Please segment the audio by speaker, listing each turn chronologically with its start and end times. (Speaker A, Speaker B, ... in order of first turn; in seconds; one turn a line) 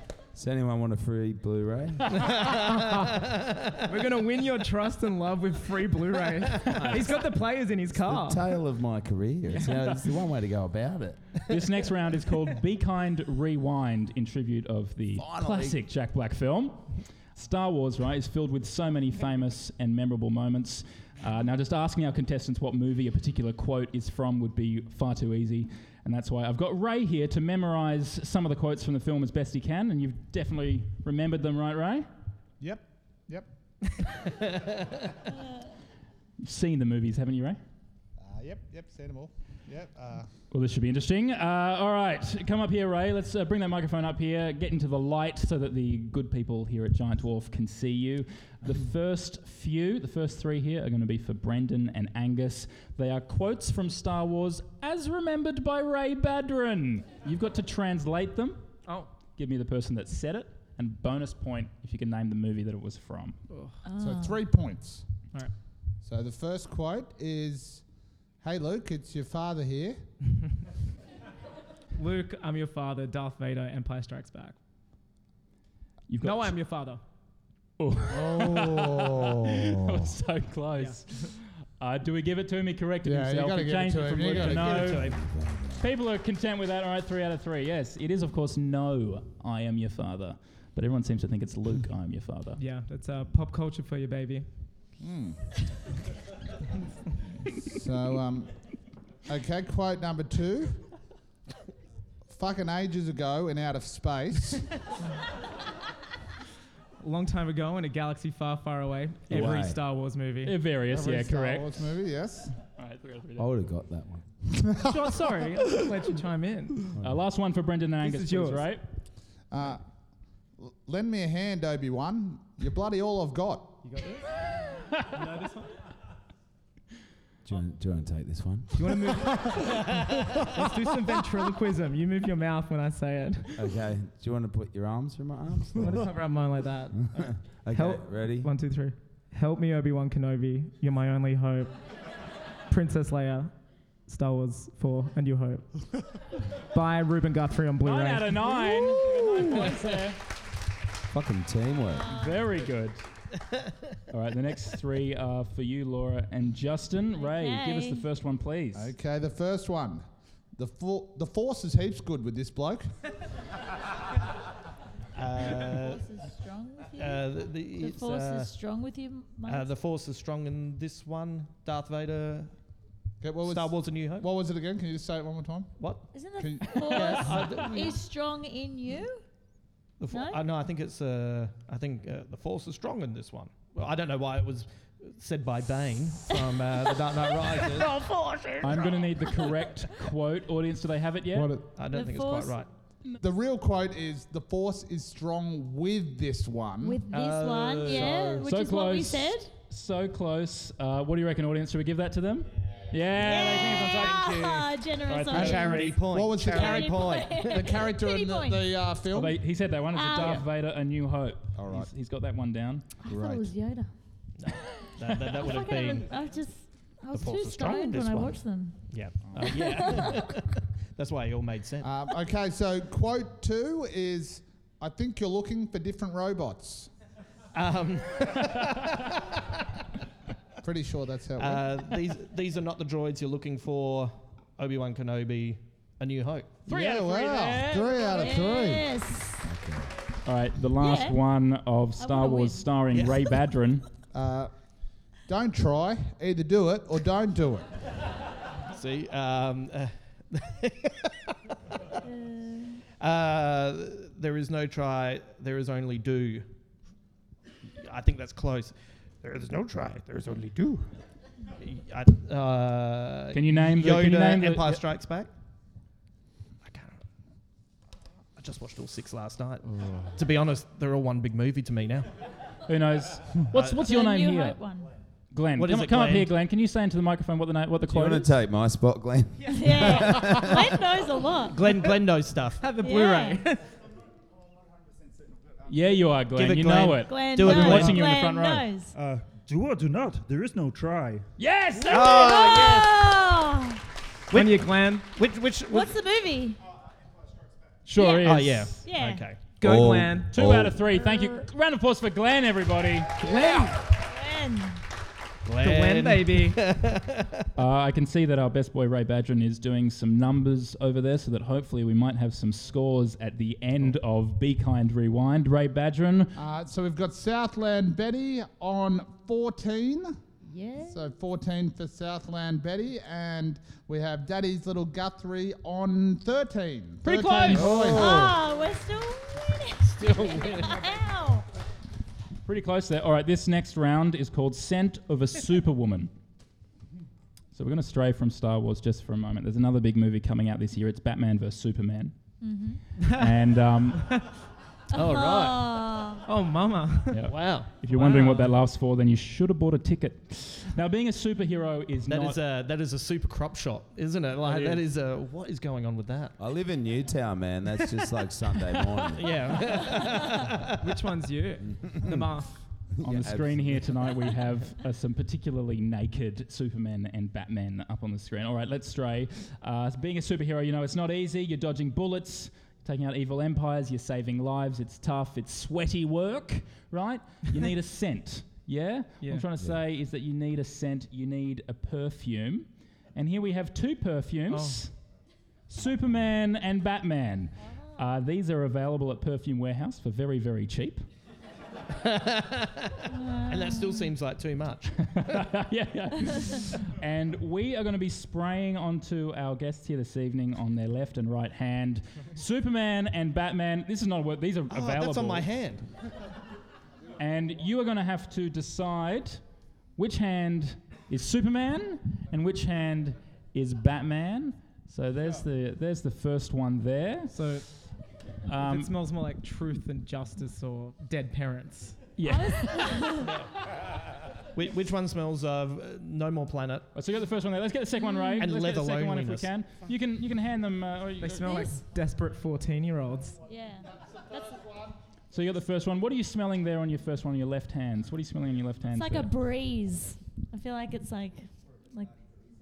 Speaker A: 0.3-2.3
Speaker B: 2.1-3.8
Speaker C: 2.6-3.2
Speaker C: 3.8-8.5
Speaker A: 7.9-11.4
Speaker D: 11.5-32.1
Speaker A: 15.2-15.8
Speaker E: 32.6-34.0
Speaker D: 36.4-37.6
Speaker E: 38.2-40.3
Speaker D: 40.5-58.6
Speaker D: 59.3-63.4
Speaker C: 63.5-63.8
Speaker F: 63.8-64.4
Speaker E: 64.0-65.0
Speaker E: 66.0-67.8
Speaker E: 68.4-70.1
Speaker C: 72.0-74.6
Speaker D: 76.1-76.5
Speaker C: 76.2-77.0
Speaker D: 77.8-85.1
Speaker E: 78.1-80.1
Speaker C: 80.8-81.3
Speaker E: 83.0-85.0
Speaker B: 84.3-85.2
Speaker A: 85.0-85.9
Speaker D: 85.8-92.6
Speaker C: 92.6-94.5
Speaker E: 95.0-95.5
Speaker E: 97.6-98.7
Speaker E: 99.3-100.9
Speaker E: 102.3-104.8
Speaker C: 107.0-110.6
Speaker A: 109.3-109.8
Speaker D: 110.4-111.9
Speaker E: 110.9-112.6
Speaker D: 112.7-113.5
Speaker A: 113.4-114.2
Speaker E: 114.6-115.0
Speaker C: 114.8-116.9
Speaker D: 117.0-118.8
Speaker C: 118.0-118.7
Speaker E: 119.5-119.8
Speaker E: 120.6-123.8
Speaker C: 123.8-124.3
Speaker C: 125.1-125.7
Speaker A: 127.5-129.1
Speaker C: 128.7-133.7
Speaker A: 133.6-136.1
Speaker C: 135.8-141.8
Speaker A: 137.0-138.5
Speaker C: 142.7-143.6
Speaker C: 144.1-145.7
Speaker C: 146.7-148.4
Speaker D: 147.8-150.2
Speaker F: 148.6-149.5
Speaker A: 151.1-152.1
Speaker F: 151.8-152.5
Speaker D: 152.1-153.0
Speaker D: 154.1-158.9
Speaker F: 157.2-158.1
Speaker E: 158.8-160.1
Speaker E: 160.6-162.9
Speaker B: 165.2-166.0
Speaker F: 165.7-169.7
Speaker B: 167.0-168.5
Speaker B: 169.5-172.5
Speaker E: 173.2-175.7
Speaker B: 173.4-174.3
Speaker B: 175.8-176.1
Speaker F: 176.1-179.2
Speaker E: 176.4-177.5
Speaker B: 176.7-178.0
Speaker B: 180.0-188.0
Speaker F: 180.1-180.4
Speaker F: 187.0-189.6
Speaker D: 188.6-191.7
Speaker E: 191.3-191.6
Speaker B: 191.7-192.7
Speaker F: 191.9-192.6
Speaker E: 193.2-197.0
Speaker F: 196.8-199.6
Speaker B: 197.1-198.4
Speaker D: 197.9-204.5
Speaker F: 203.2-208.7
Speaker B: 203.8-204.7
Speaker D: 205.1-206.0
Speaker B: 205.3-207.8
Speaker E: 205.3-209.4
Speaker D: 209.1-212.9
Speaker F: 209.9-210.4
Speaker B: 210.2-210.4
Speaker E: 211.6-211.9
Speaker F: 213.0-213.9
Speaker E: 213.1-213.5
Speaker B: 214.4-216.1
Speaker F: 215.3-218.9
Speaker B: 217.1-221.9
Speaker F: 219.4-220.2
Speaker E: 221.8-226.9
Speaker B: 227.5-229.4
Speaker E: 230.6-231.7
Speaker B: 231.4-236.7
Speaker D: 236.7-238.3
Speaker E: 236.7-238.9
Speaker F: 238.0-239.4
Speaker A: 239.4-239.9
Speaker D: 240.3-243.9
Speaker F: 240.8-241.2
Speaker F: 242.0-242.8
Speaker E: 244.1-244.5
Speaker E: 245.3-247.7
Speaker B: 248.7-251.3
Speaker F: 252.1-252.8
Speaker B: 253.0-256.5
Speaker B: 257.8-260.9
Speaker B: 261.6-265.3
Speaker D: 263.3-264.8
Speaker B: 266.6-267.0
Speaker B: 268.4-272.1
Speaker D: 272.7-274.6
Speaker B: 273.5-273.8
Speaker F: 273.8-274.9
Speaker D: 275.3-278.3
Speaker B: 275.6-276.3
Speaker A: 277.9-280.8
Speaker F: 279.5-281.7
Speaker B: 281.5-282.6
Speaker C: 282.6-283.6
Speaker F: 282.8-283.5
Speaker D: 285.7-288.7
Speaker B: 286.4-288.0
Speaker F: 287.1-288.9
Speaker G: 288.9-291.3
Speaker D: 291.4-292.6
Speaker B: 291.9-293.0
Speaker F: 291.9-293.8
Speaker C: 294.3-295.1
Speaker B: 294.3-295.9
Speaker F: 295.7-296.6
Speaker D: 297.9-298.8
Speaker F: 297.9-299.2
Speaker B: 298.1-299.4
Speaker C: 299.6-300.3
Speaker A: 299.6-300.8
Speaker D: 300.3-303.4
Speaker F: 300.9-301.5
Speaker B: 303.3-303.6
Speaker F: 303.4-304.8
Speaker B: 305.5-307.5
Speaker C: 305.6-306.6
Speaker D: 307.6-316.4
Speaker E: 316.4-320.2
Speaker F: 320.5-321.0
Speaker E: 320.8-328.4
Speaker D: 327.0-328.0
Speaker A: 327.5-328.3
Speaker F: 327.8-331.5
Speaker B: 330.0-330.8
Speaker D: 332.4-336.1
Speaker D: 337.5-342.2
Speaker F: 342.4-342.8
Speaker C: 343.0-343.4
Speaker D: 343.0-344.3
Speaker C: 343.9-344.2
Speaker B: 344.9-345.9
Speaker F: 344.9-346.3
Speaker C: 346.2-347.3
Speaker D: 347.1-352.4
Speaker B: 347.3-347.8
Speaker C: 347.9-348.5
Speaker B: 352.1-356.4
Speaker D: 354.4-354.8
Speaker A: 356.4-359.5
Speaker B: 358.9-360.8
Speaker C: 360.8-362.6
Speaker A: 361.7-362.3
Speaker A: 363.0-363.9
Speaker D: 363.0-384.9
Speaker C: 379.2-379.5
Speaker C: 384.5-384.8
Speaker D: 385.7-391.1
Speaker B: 391.9-395.1
Speaker F: 393.1-394.1
Speaker D: 395.0-405.5
Speaker F: 396.3-396.6
Speaker B: 404.7-405.9
Speaker D: 407.2-409.4
Speaker D: 410.0-417.3
Speaker C: 417.3-417.7
Speaker D: 418.5-418.9
Speaker C: 418.6-422.0
Speaker D: 422.2-423.0
Speaker F: 422.2-423.3
Speaker B: 423.2-423.5
Speaker B: 424.5-426.9
Speaker D: 426.9-431.5
Speaker F: 428.0-428.5
Speaker B: 428.4-429.5
Speaker C: 431.2-433.4
Speaker F: 431.4-431.8
Speaker F: 433.5-434.6
Speaker D: 435.3-439.3
Speaker F: 438.9-442.1